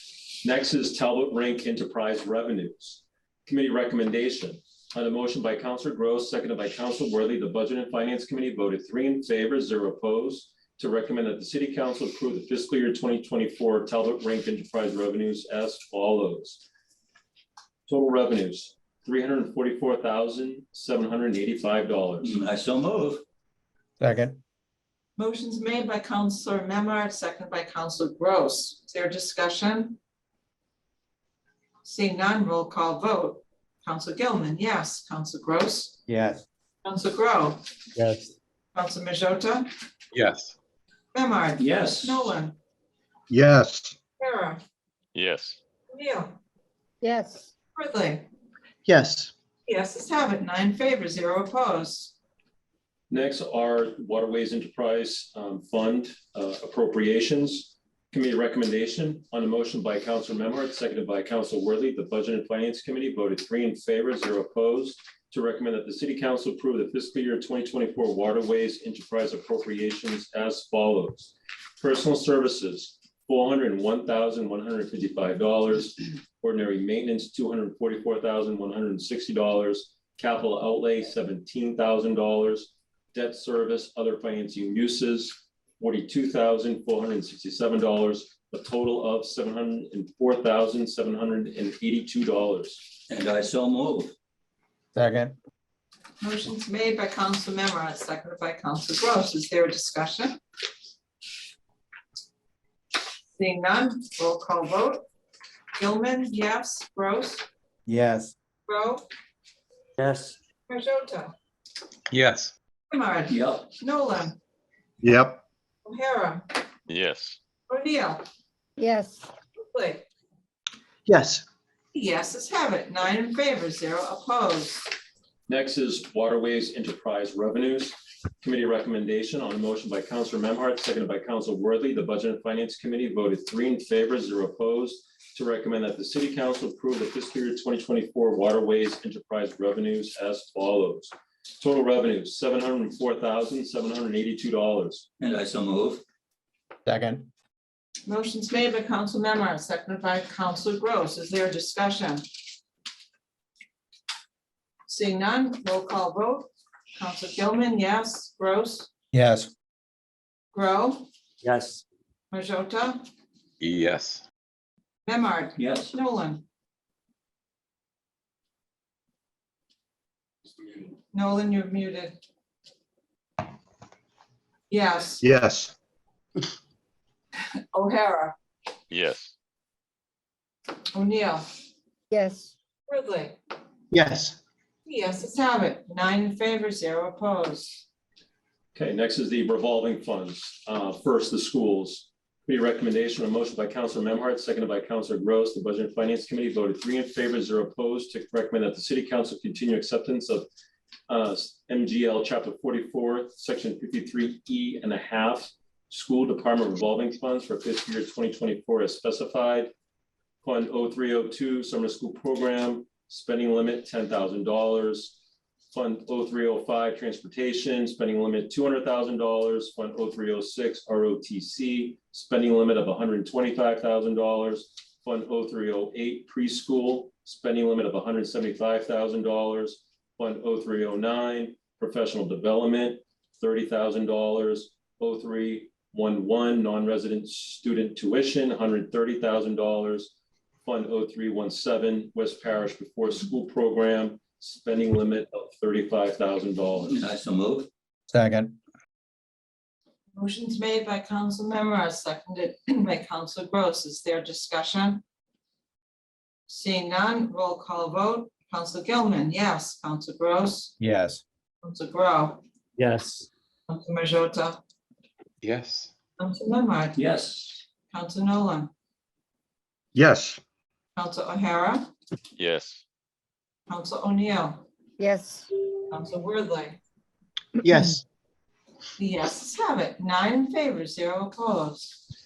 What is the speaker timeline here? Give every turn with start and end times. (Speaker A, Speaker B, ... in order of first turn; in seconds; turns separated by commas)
Speaker A: 0.4-16.6, Speaker A: 17.9-22.3, Speaker B: 22.2-23.2, Speaker C: 24.0-24.4, Speaker D: 25.2-30.0, Speaker D: 31.8-36.0, Speaker C: 36.1-36.4, Speaker D: 36.8-37.6, Speaker D: 38.7-39.7, Speaker E: 40.1-40.5, Speaker D: 41.1-42.5, Speaker B: 41.6-42.3, Speaker F: 43.3-43.9, Speaker D: 44.2-44.6, Speaker E: 45.1-45.6, Speaker D: 45.9-46.4, Speaker G: 47.0-47.5, Speaker D: 47.7-48.2, Speaker F: 48.9-49.3, Speaker D: 49.6-52.1, Speaker A: 53.1-92.8, Speaker B: 93.1-94.1, Speaker C: 94.9-95.3, Speaker D: 96.2-100.4, Speaker D: 103.3-105.0, Speaker D: 105.8-107.4, Speaker C: 107.9-108.3, Speaker D: 108.7-109.0, Speaker B: 110.0-110.3, Speaker D: 110.7-111.3, Speaker E: 112.1-112.5, Speaker D: 112.9-114.4, Speaker B: 113.3-113.7, Speaker F: 115.0-115.4, Speaker D: 115.8-116.4, Speaker E: 116.9-117.4, Speaker D: 117.7-118.2, Speaker G: 118.8-119.3, Speaker D: 119.6-120.0, Speaker F: 121.0-121.4, Speaker D: 121.9-124.9, Speaker A: 125.5-145.1, Speaker B: 145.2-146.0, Speaker C: 146.8-147.3, Speaker D: 148.1-152.2, Speaker D: 154.9-158.9, Speaker C: 159.1-159.5, Speaker D: 160.5-161.1, Speaker B: 161.4-161.8, Speaker D: 162.3-163.0, Speaker E: 163.6-164.2, Speaker D: 165.0-166.4, Speaker B: 165.6-165.9, Speaker D: 171.1-172.2, Speaker D: 174.7-175.2, Speaker F: 175.2-175.7, Speaker D: 177.7-178.3, Speaker E: 178.9-179.3, Speaker D: 180.9-181.5, Speaker G: 182.1-182.5, Speaker D: 182.9-183.3, Speaker F: 183.9-184.4, Speaker D: 184.8-187.8, Speaker A: 188.7-200.4, Speaker A: 201.1-209.7, Speaker A: 210.4-215.2, Speaker A: 215.7-240.1, Speaker A: 240.6-246.9, Speaker B: 246.8-247.7, Speaker C: 248.1-248.6, Speaker D: 250.1-255.0, Speaker D: 256.5-260.7, Speaker C: 260.8-261.2, Speaker D: 261.6-262.4, Speaker D: 263.7-264.6, Speaker E: 265.4-265.9, Speaker D: 266.2-267.0, Speaker B: 266.9-267.6, Speaker D: 267.9-268.7, Speaker F: 269.9-270.4, Speaker D: 270.9-271.9, Speaker E: 272.4-272.8, Speaker D: 273.7-274.6, Speaker G: 275.0-275.5, Speaker D: 275.9-276.8, Speaker F: 277.6-278.0, Speaker D: 279.0-282.0